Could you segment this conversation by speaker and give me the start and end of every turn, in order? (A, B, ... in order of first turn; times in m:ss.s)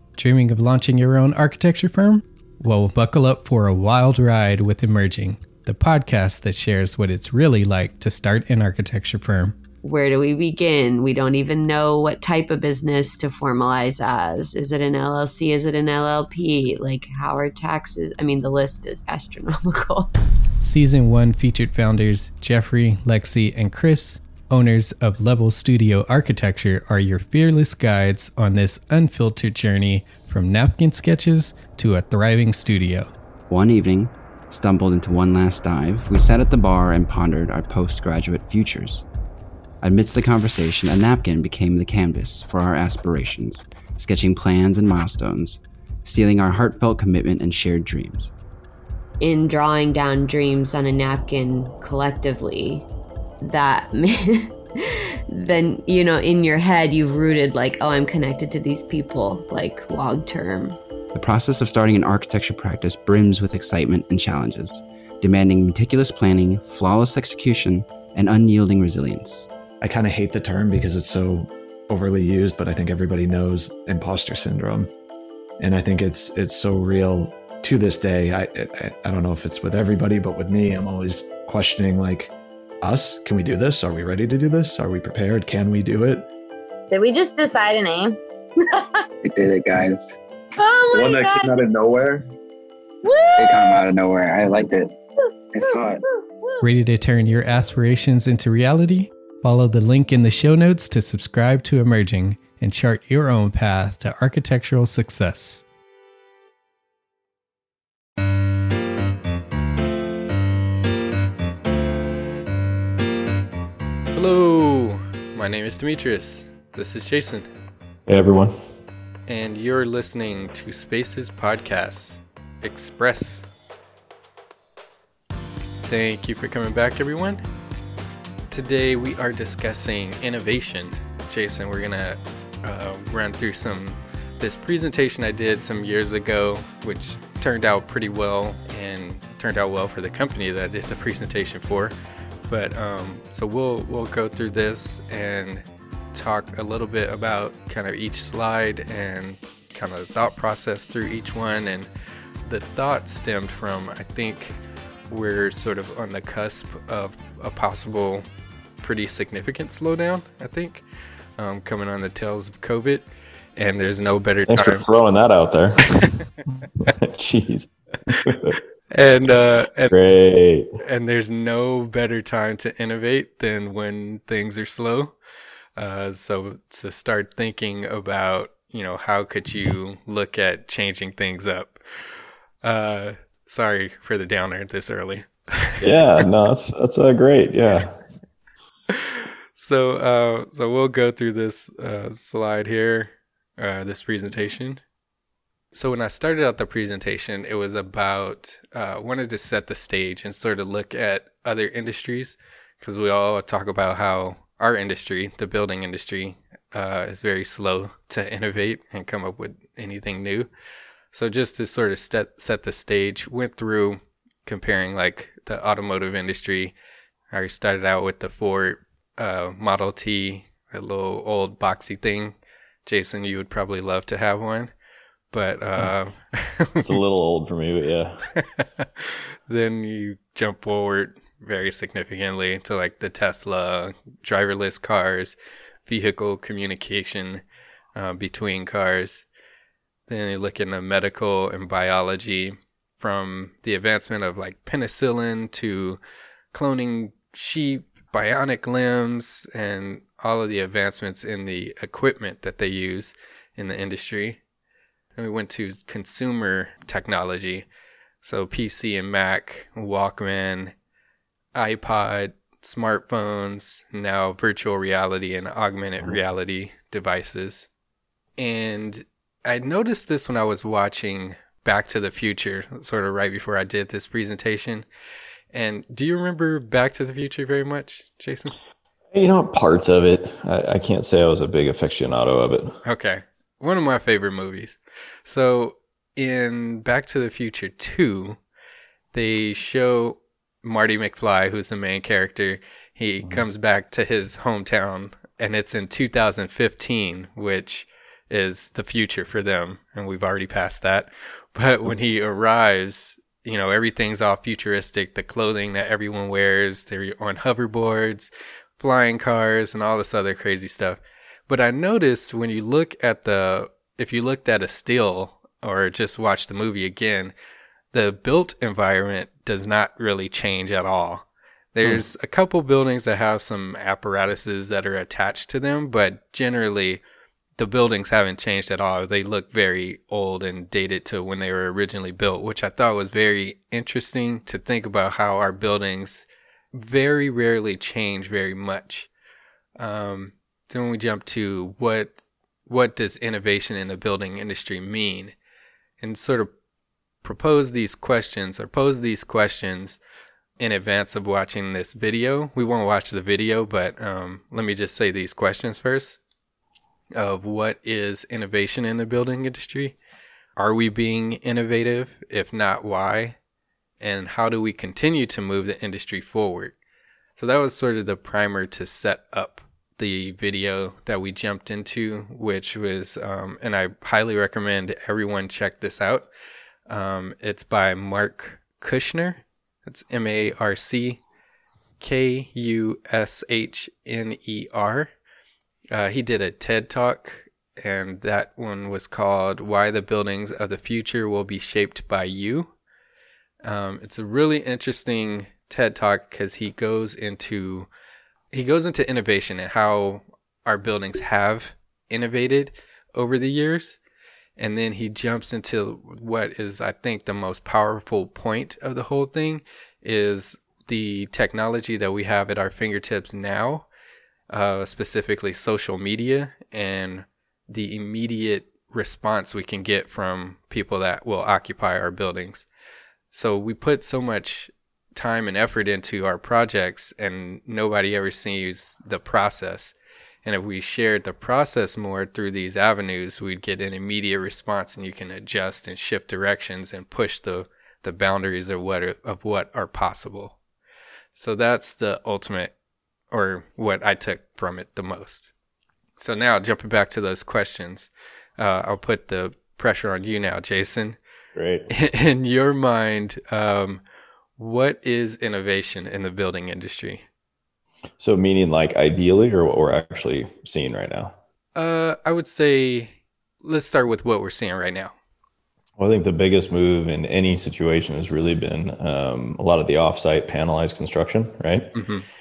0:00.2-0:09.6 A
0:09.8-0:20.1 B
0:20.6-0:33.1 A
0:33.5-0:39.0 C
0:39.8-0:48.3 C
0:49.2-0:52.9 B
0:53.4-1:00.8 B
1:01.1-1:09.5 C
1:09.8-1:14.9 D
1:15.6-1:26.3 D
1:26.9-1:29.0 E
1:29.2-1:30.1 F
1:30.6-1:31.5 E
1:30.9-1:32.3 D
1:33.0-1:33.6 E
1:33.4-1:34.9 F
1:35.5-1:36.0 F
1:36.6-1:45.6 A
1:54.1-1:57.5 A
1:58.1-1:58.6 G
1:59.3-2:03.5 A
2:05.9-2:07.4 A
2:08.5-2:22.0 A
2:22.5-2:31.9 A
2:32.4-2:34.6 A
2:35.1-2:38.2 A
2:38.8-2:40.8 A
2:41.4-2:44.8 A
2:44.5-2:46.2 G
2:46.8-2:48.6 G
2:48.9-2:50.2 A
2:49.9-2:50.7 G
2:50.8-2:55.2 A
2:55.8-3:01.8 A
3:02.6-3:05.9 A
3:05.8-3:08.0 G
3:08.9-3:14.8 A
3:15.7-3:30.5 A
3:31.1-3:36.7 A
3:37.3-3:44.7 A
3:45.3-3:46.9 A
3:46.8-3:48.3 G
3:48.4-3:55.4 A
3:55.9-3:57.4 A
3:58.0-3:59.3 A
4:00.1-4:06.0 A
4:06.5-4:14.4 A
4:15.2-4:17.7 A
4:18.2-4:20.7 A
4:21.6-4:27.7 A
4:28.4-4:34.9 A
4:35.5-4:38.6 A
4:39.1-4:42.8 G
4:42.8-4:48.4 A
4:49.1-5:17.3 A
5:17.9-5:27.0 A
5:27.6-5:39.1 A
5:39.8-5:45.4 A
5:46.0-5:46.5 A
5:47.2-5:50.0 A
5:50.6-5:56.2 A
5:57.2-6:00.0 A
6:00.6-6:03.4 A
6:04.0-6:06.8 A
6:07.4-6:16.3 A
6:16.9-6:21.2 A
6:22.0-6:25.1 A
6:25.9-6:32.7 A
6:33.6-6:37.9 A
6:38.5-6:44.0 A
6:44.6-6:53.9 A
6:54.5-7:02.7 A
7:03.3-7:20.6 A
7:21.3-7:22.7 A
7:23.3-7:25.5 A
7:26.2-7:31.2 A
7:31.6-7:31.9 G
7:31.9-7:34.0 A
7:34.6-7:37.2 A
7:38.2-7:41.4 G
7:41.8-7:45.1 A
7:46.0-7:52.0 G
7:52.0-7:52.2 A